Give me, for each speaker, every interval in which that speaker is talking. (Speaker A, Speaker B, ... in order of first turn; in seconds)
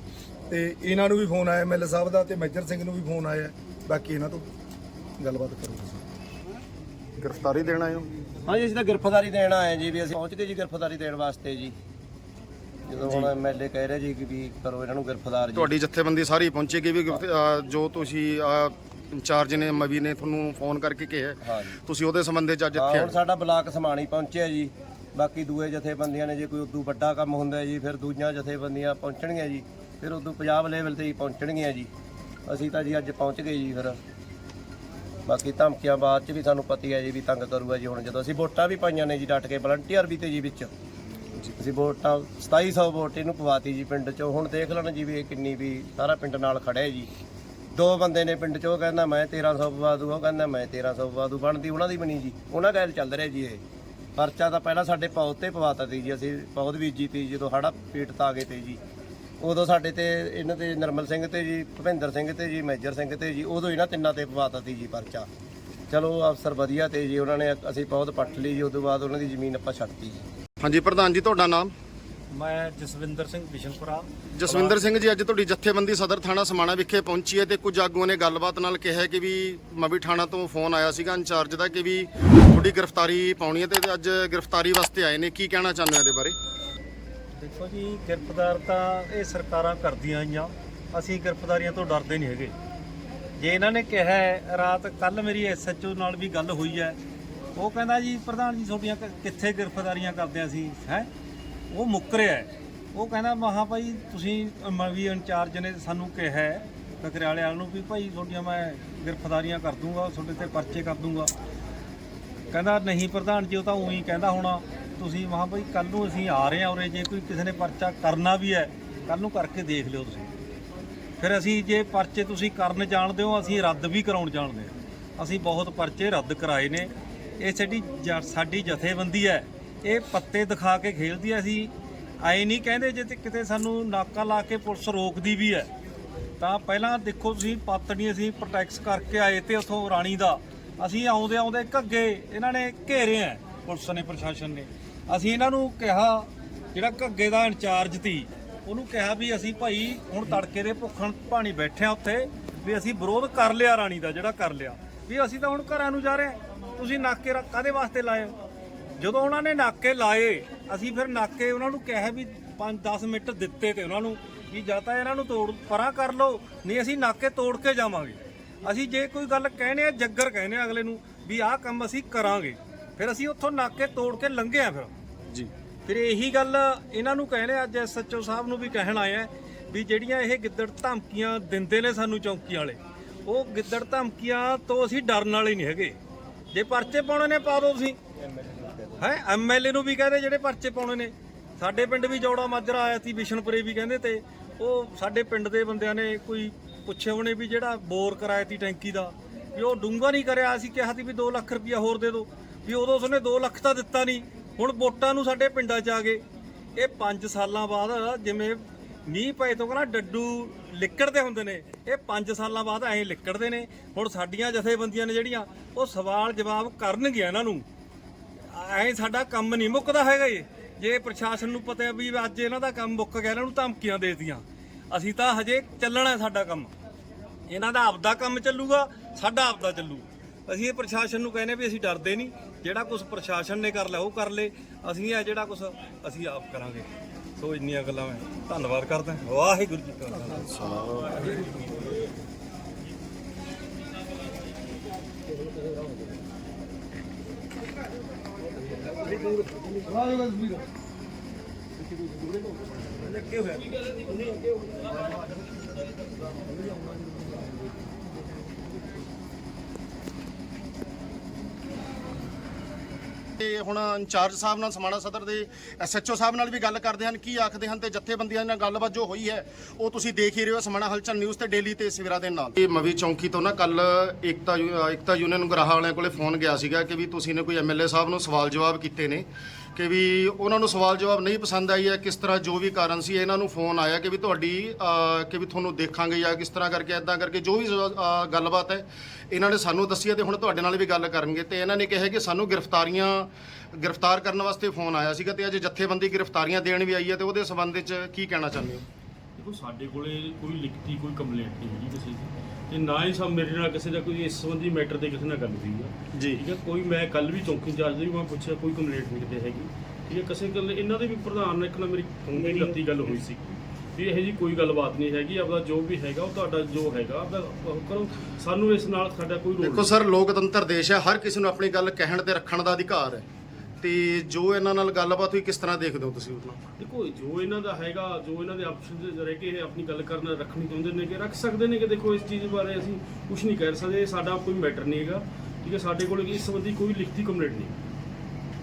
Speaker A: 0.5-4.5, 5.2-6.0
Speaker B: 7.2-8.1, 13.0-13.3, 15.5-23.2, 70.6-71.7, 74.3-86.3, 263.4-298.8, 306.1-306.4, 319.6-323.3, 323.8-326.6
Speaker C: 8.4-11.8, 12.8-15.7, 21.4-21.7, 22.7-31.9, 32.5-34.0, 35.2-40.7, 41.5-47.1, 47.7-53.6, 54.1-58.8, 59.4-65.3, 65.9-70.2, 188.2-189.0
Speaker D: 72.3-74.8, 87.3-92.5, 93.4-97.0, 97.5-101.1, 101.7-111.3, 112.5-120.3, 121.2-135.7, 136.4-158.3, 159.0-174.9, 175.8-185.9, 186.5-188.0, 189.0-206.2, 206.8-217.6, 218.5-226.7, 227.5-240.6
Speaker E: 299.4-319.9, 326.8-337.7